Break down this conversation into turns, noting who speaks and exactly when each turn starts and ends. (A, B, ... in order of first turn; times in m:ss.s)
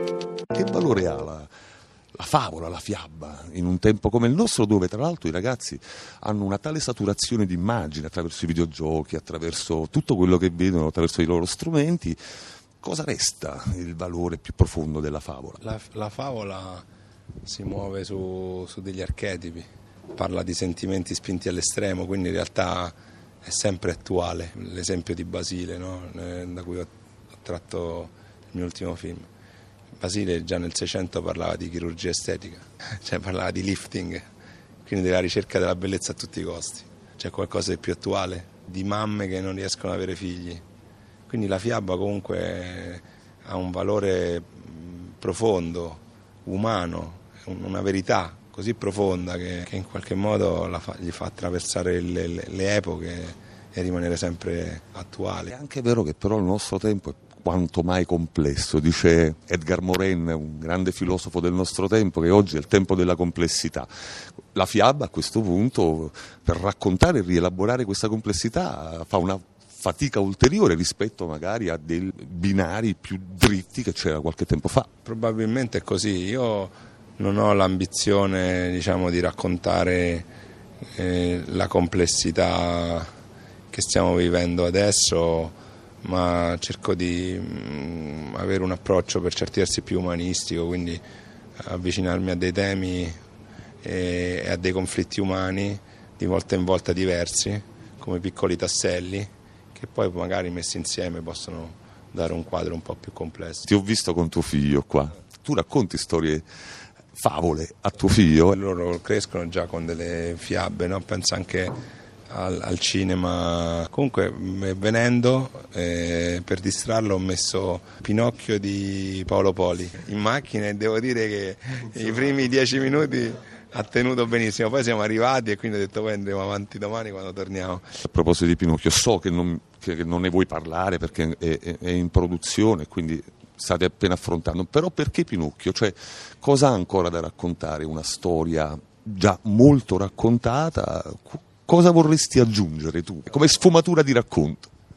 0:00.5-0:01.5 A
0:02.1-0:12.2 A
0:12.8-0:15.6 A
0:15.6-0:16.8 B
0:17.4-0:29.3 B
0:30.0-0:34.3 B
0:34.8-0:40.6 B
0:41.3-0:55.5 B
0:55.5-1:03.9 A
1:04.5-1:14.9 A
1:15.0-1:20.3 B
1:20.9-1:23.1 B
1:23.7-1:31.0 B
1:31.6-1:33.2 B
1:33.8-1:43.7 B
1:43.6-1:46.4 A
1:47.1-1:48.5 A
1:48.5-1:51.7 B
1:52.3-2:08.0 B
2:08.0-2:24.7 A